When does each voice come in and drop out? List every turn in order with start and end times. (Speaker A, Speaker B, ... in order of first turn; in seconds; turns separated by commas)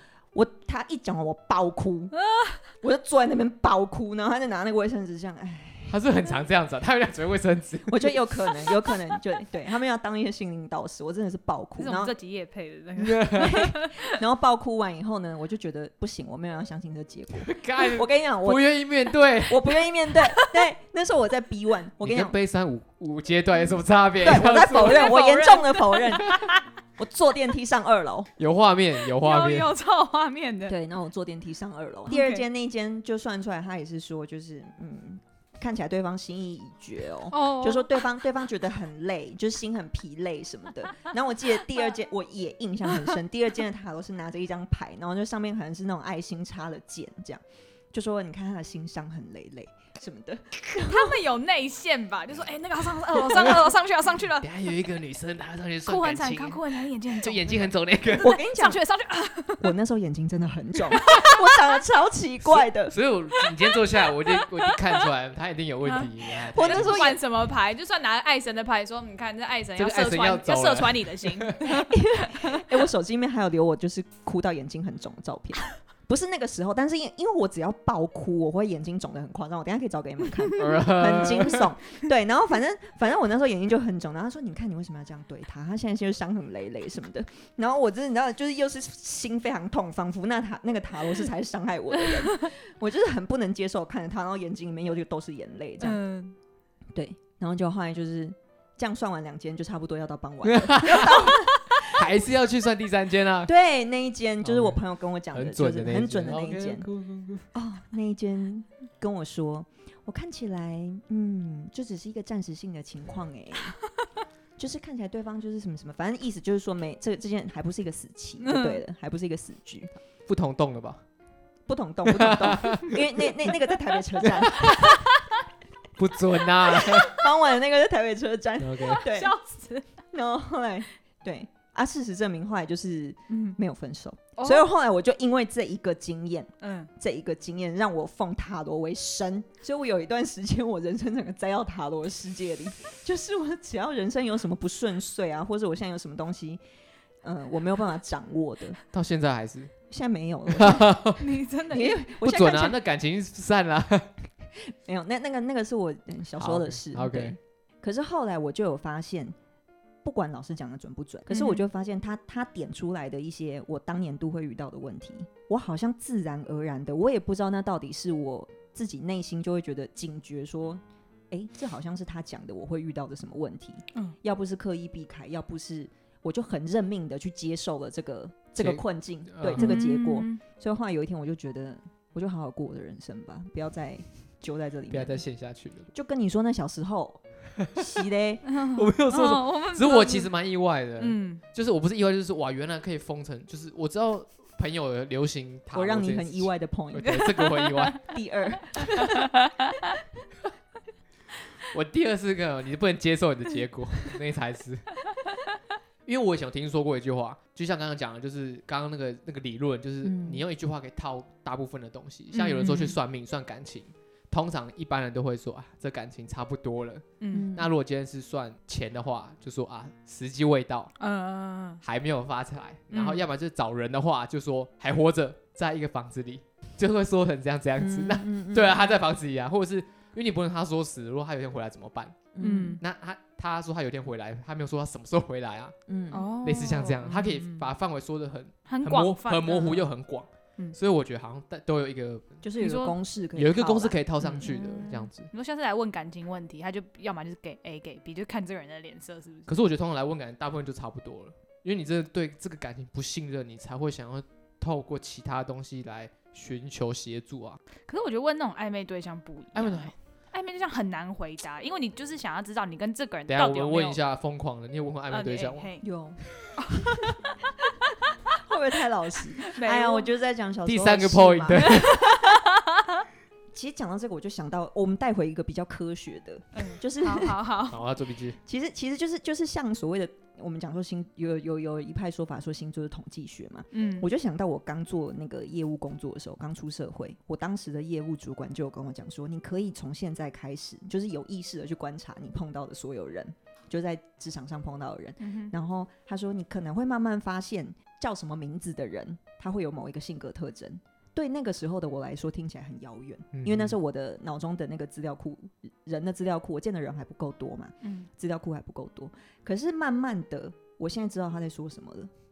Speaker A: 0.3-2.1, Speaker B: 2.2-2.6, Speaker A: 2.8-6.0, Speaker C: 5.9-8.2, Speaker A: 7.9-12.1, Speaker B: 11.8-14.1, Speaker C: 13.0-13.6, Speaker A: 13.3-18.7, Speaker C: 17.4-19.7, Speaker A: 19.4-22.3, Speaker C: 22.0-25.2, Speaker A: 24.2-28.3, Speaker B: 24.6-26.6, Speaker C: 28.4-29.7, Speaker B: 29.0-30.8, Speaker A: 30.7-47.4, Speaker B: 32.1-32.5, Speaker B: 37.3-37.9, Speaker A: 47.9-51.2, Speaker B: 50.8-54.5, Speaker C: 53.3-53.7, Speaker C: 54.4-58.4, Speaker B: 55.9-59.7, Speaker A: 58.2-58.8, Speaker A: 59.6-63.0, Speaker B: 61.0-61.4, Speaker C: 62.5-67.0, Speaker B: 63.4-65.1, Speaker B: 65.8-72.5, Speaker A: 66.5-67.2, Speaker C: 69.8-71.8, Speaker A: 71.6-96.0, Speaker C: 80.6-81.7, Speaker B: 95.8-96.4, Speaker A: 97.0-102.0, Speaker C: 100.4-103.5, Speaker A: 103.5-106.9, Speaker C: 104.4-104.8, Speaker C: 105.3-107.5, Speaker A: 107.5-113.8, Speaker A: 114.6-119.9, Speaker B: 118.4-118.8, Speaker C: 120.3-121.0, Speaker A: 121.7-125.0, Speaker C: 122.1-123.5, Speaker C: 124.2-125.0, Speaker C: 126.0-127.2, Speaker A: 126.7-129.3, Speaker C: 128.6-129.1, Speaker B: 128.9-129.9, Speaker A: 130.1-146.6, Speaker B: 133.3-133.6, Speaker B: 134.4-134.7, Speaker B: 136.6-136.9, Speaker A: 147.2-148.8, Speaker C: 148.9-149.7, Speaker A: 149.9-151.0, Speaker C: 150.5-151.3, Speaker B: 151.2-152.1, Speaker A: 151.7-152.8, Speaker C: 152.2-154.1, Speaker A: 154.6-159.3, Speaker C: 156.4-157.4, Speaker A: 160.0-185.2, Speaker B: 161.3-161.6, Speaker C: 178.6-179.8, Speaker B: 179.6-180.4, Speaker C: 184.9-185.9, Speaker A: 185.9-188.4, Speaker B: 188.5-190.3, Speaker C: 188.7-198.0, Speaker B: 191.0-191.4, Speaker A: 195.7-197.3, Speaker B: 197.1-198.0, Speaker A: 198.1-199.3, Speaker B: 198.8-199.5, Speaker C: 201.7-204.9, Speaker C: 206.1-220.9, Speaker A: 210.0-210.4, Speaker B: 212.3-213.0, Speaker A: 212.6-212.9, Speaker B: 217.2-217.5, Speaker A: 217.3-217.7, Speaker B: 221.0-221.8, Speaker C: 221.8-235.8, Speaker B: 222.9-223.3, Speaker A: 227.8-228.9, Speaker A: 232.3-232.8, Speaker B: 232.4-232.8, Speaker A: 235.9-236.3, Speaker B: 236.1-237.7, Speaker C: 236.3-242.4, Speaker B: 238.7-239.8, Speaker A: 242.4-244.4, Speaker B: 242.6-243.0, Speaker C: 243.3-245.3, Speaker B: 244.3-249.5, Speaker C: 249.5-257.6, Speaker B: 257.9-264.0, Speaker C: 259.6-259.9, Speaker C: 263.3-265.7, Speaker B: 265.1-265.9, Speaker A: 265.8-266.2, Speaker B: 266.6-267.0, Speaker A: 268.4-272.2, Speaker B: 269.4-270.1, Speaker C: 270.7-272.0, Speaker B: 271.6-272.8, Speaker A: 273.5-277.4, Speaker B: 276.5-277.8, Speaker C: 277.7-278.4, Speaker A: 278.4-312.1, Speaker B: 283.7-284.1, Speaker B: 295.2-295.5, Speaker C: 303.3-303.8, Speaker B: 307.8-308.1